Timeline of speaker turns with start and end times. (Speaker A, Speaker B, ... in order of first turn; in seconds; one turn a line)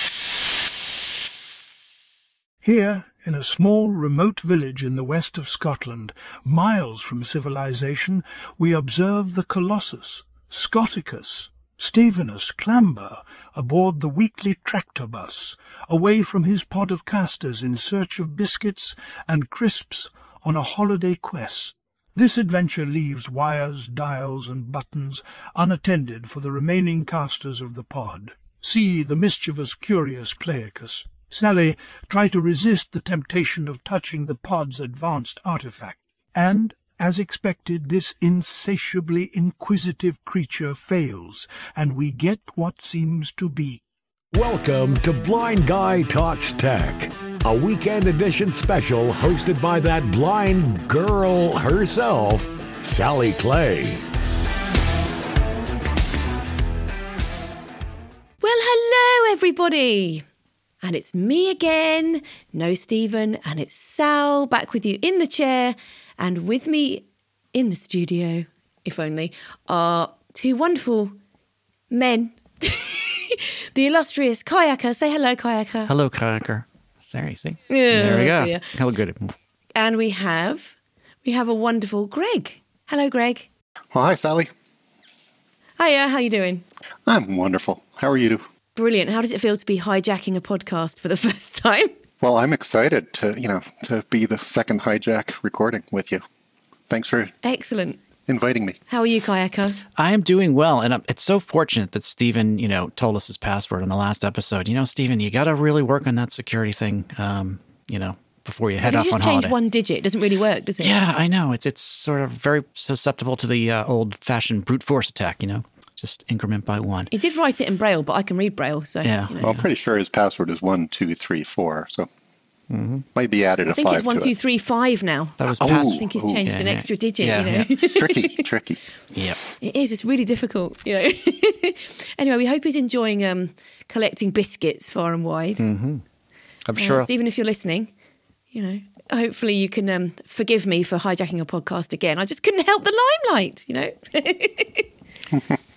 Speaker A: 2.6-43.8
Speaker B: 44.3-54.0
Speaker C: 58.4-60.2
Speaker C: 60.8-71.2
Speaker C: 71.9-75.9
Speaker D: 75.9-79.3
Speaker C: 77.7-78.7
Speaker C: 79.8-83.5
Speaker E: 83.9-84.5
Speaker C: 85.8-86.7
Speaker E: 87.1-88.4
Speaker C: 88.8-91.9
Speaker E: 92.2-96.2
Speaker E: 96.9-97.3
Speaker C: 97.4-98.0
Speaker E: 98.3-98.8
Speaker C: 98.9-99.8
Speaker D: 100.0-109.5
Speaker C: 108.8-111.0
Speaker D: 110.8-117.1
Speaker C: 117.1-119.5
Speaker D: 119.0-119.6
Speaker E: 119.4-122.1
Speaker D: 122.7-123.1
Speaker E: 123.2-124.3
Speaker C: 123.7-128.4
Speaker D: 125.4-127.7
Speaker E: 125.6-126.5
Speaker E: 127.8-128.8
Speaker D: 129.1-129.4
Speaker C: 129.6-135.6
Speaker D: 135.6-136.0
Speaker D: 136.7-137.1
Speaker C: 136.8-137.9
Speaker C: 138.5-144.9